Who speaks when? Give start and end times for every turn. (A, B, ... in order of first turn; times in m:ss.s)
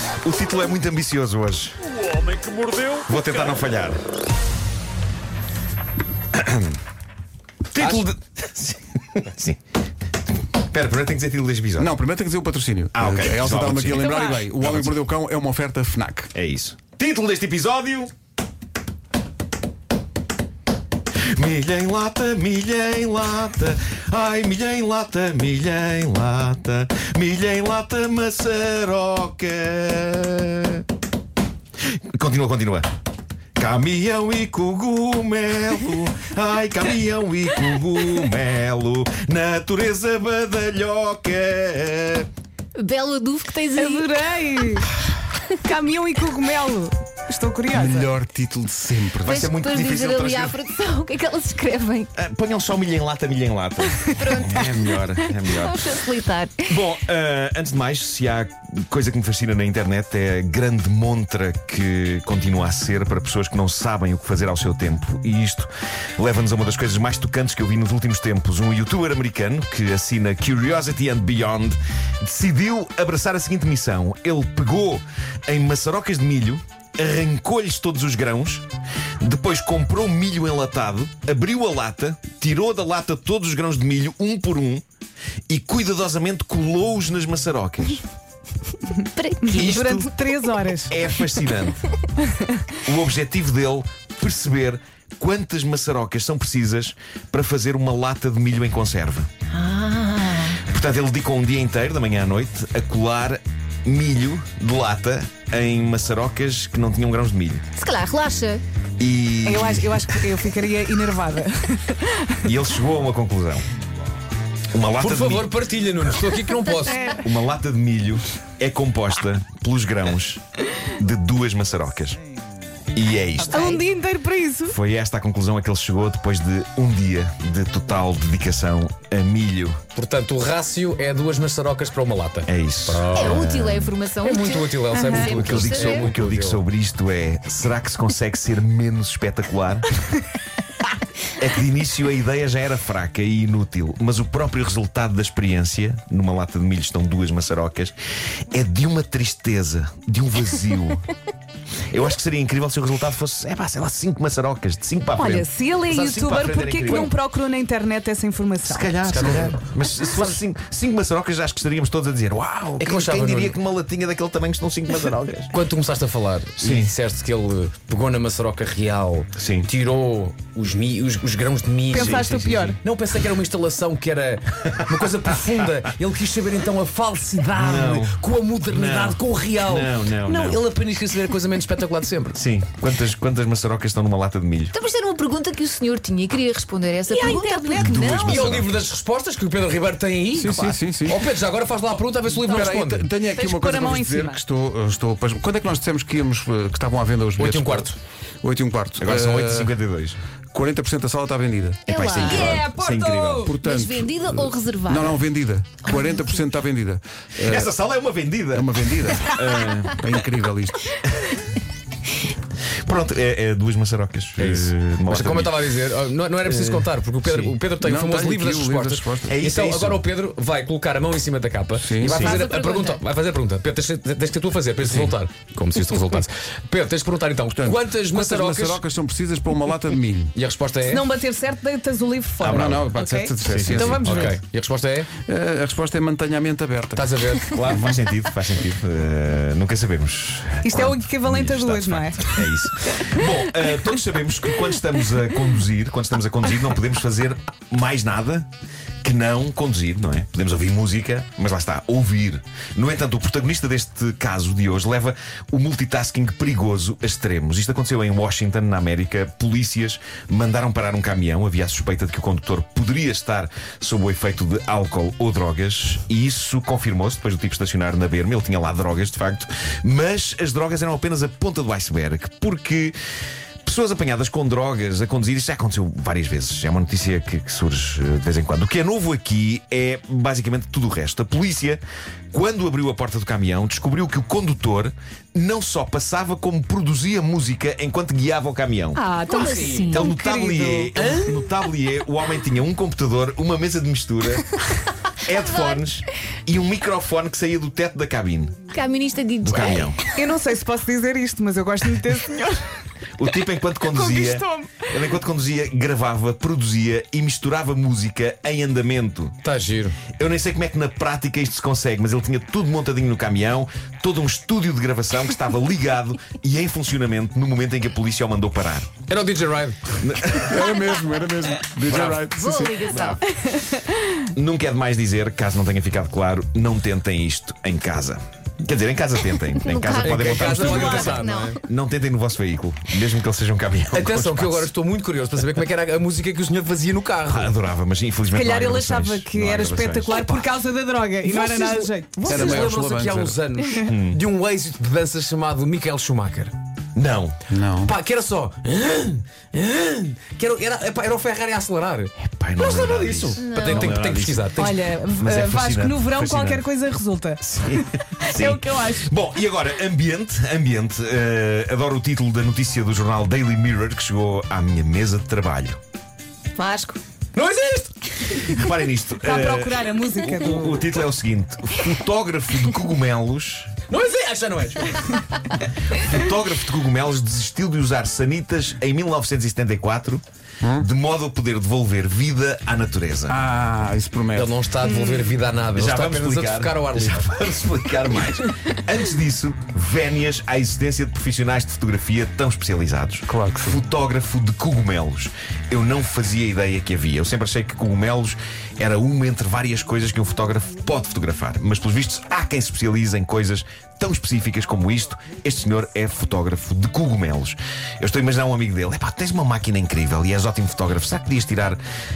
0:00.2-0:01.8 A
0:02.9-0:04.0 A
0:06.4-0:06.7 A
0:07.7-0:09.6 A
0:07.8-0:08.1 B
0:10.7-0:12.0 A
0:11.8-0:16.3 C
0:12.9-0:15.0 A
0:14.0-0:14.4 D
0:16.3-0:18.1 A
0:21.4-0:30.8 A
0:31.9-0:32.9 A
0:33.6-0:42.3 A
0:42.8-0:44.8 E
0:43.8-0:44.9 D
0:45.6-0:48.1 D
0:47.7-0:49.5 C
0:49.2-0:50.6 A
0:49.2-0:52.1 E
0:52.2-0:56.0 A
0:54.1-0:54.7 E
0:55.4-0:56.8 E
0:56.7-1:18.6 A
1:19.2-1:24.8 A
1:25.5-1:28.0 A
1:29.1-1:30.1 E
1:29.4-1:31.0 D
1:29.5-1:30.1 A
1:30.9-1:31.8 A
1:32.8-1:39.3 A
1:39.5-1:40.6 E
1:40.6-1:47.7 A
1:47.8-1:48.6 E
1:49.0-1:50.0 A
1:49.4-1:52.4 D
1:52.4-1:53.6 A
1:54.7-1:55.5 A
1:55.0-1:57.0 B
1:56.6-1:57.2 E
1:56.9-1:57.2 D
1:57.2-2:02.2 A
2:02.9-2:03.8 A
2:03.4-2:04.8 D
2:04.7-2:09.8 A
2:10.0-2:13.5 B
2:12.5-2:13.9 A
2:13.1-2:16.1 E
2:14.2-2:16.6 B
2:15.1-2:19.9 A
2:21.4-2:28.0 A
2:28.5-2:31.1 A
2:31.9-2:37.1 A
2:35.2-2:39.0 D
2:38.6-2:45.5 A
2:39.1-2:39.6 B
2:42.8-2:43.6 B
2:45.5-3:02.4 B
2:46.6-2:46.9 A
2:49.4-2:49.7 A
2:51.9-2:52.8 D
2:51.9-2:52.6 A
2:57.6-3:00.6 A
3:02.3-3:04.8 A
3:04.7-3:08.6 E
3:07.1-3:13.1 B
3:07.7-3:08.9 A
3:10.4-3:11.2 C
3:12.4-3:17.9 C
3:13.3-3:14.4 D
3:17.4-3:18.0 B
3:18.4-3:19.8 C
3:19.0-3:20.2 A
3:20.5-3:21.8 C
3:21.9-3:22.7 E
3:21.9-3:23.5 A
3:22.5-3:23.4 D
3:23.4-3:27.7 C
3:23.6-3:25.2 E
3:25.9-3:26.2 E
3:27.4-3:30.0 A
3:28.5-3:30.9 C
3:32.8-3:35.6 A
3:34.4-3:48.8 B
3:36.4-3:39.4 C
3:39.3-3:40.0 A
3:41.8-3:42.3 C
3:42.0-3:42.4 A
3:42.1-3:43.0 E
3:47.5-3:50.3 C
3:50.3-3:51.1 B
3:50.8-3:54.2 D
3:52.4-3:54.1 A
3:52.5-3:54.4 C
3:54.0-3:55.1 B
3:55.2-3:58.0 C
3:57.0-3:57.6 B
3:57.5-4:08.5 A
4:00.6-4:03.1 D
4:09.0-4:33.0 A
4:33.6-4:49.0 A
4:49.0-4:50.9 D
4:49.0-4:50.1 E
4:49.3-4:50.0 B
4:49.9-4:54.6 A
4:51.0-4:51.3 B
4:55.2-4:58.6 A
4:55.3-4:55.8 E
4:58.7-5:00.0 E
4:59.4-5:00.0 A
5:00.2-5:02.7 D
5:03.2-5:09.4 A
5:03.8-5:04.9 D
5:09.4-5:10.0 B
5:10.2-5:18.9 A
5:19.1-5:20.0 B
5:20.0-5:20.8 A
5:20.4-5:23.0 C
5:21.8-5:22.3 A
5:22.3-5:23.2 E
5:22.9-5:23.2 A
5:24.3-5:34.7 A
5:29.6-5:31.6 E
5:30.0-5:31.6 B
5:30.5-5:31.1 D
5:33.9-5:37.5 B
5:37.3-5:40.4 A
5:38.3-5:42.7 D
5:41.3-5:46.5 B
5:42.2-5:43.4 C
5:43.9-5:44.2 A
5:47.0-5:47.4 A
5:47.5-5:47.9 C
5:47.8-5:54.8 B
5:52.2-5:54.6 A
5:53.4-5:54.0 E
5:54.6-5:59.1 D
5:55.2-5:56.7 A
5:57.4-6:05.8 A
6:06.6-6:07.0 E
6:07.4-6:08.4 B
6:08.3-6:13.7 A
6:09.2-6:10.9 D
6:13.9-6:15.3 B
6:15.9-6:20.2 A
6:20.8-6:23.4 A
6:23.3-6:24.6 C
6:24.3-6:27.3 B
6:24.8-6:25.3 D
6:25.8-6:51.8 A
6:33.3-6:33.8 C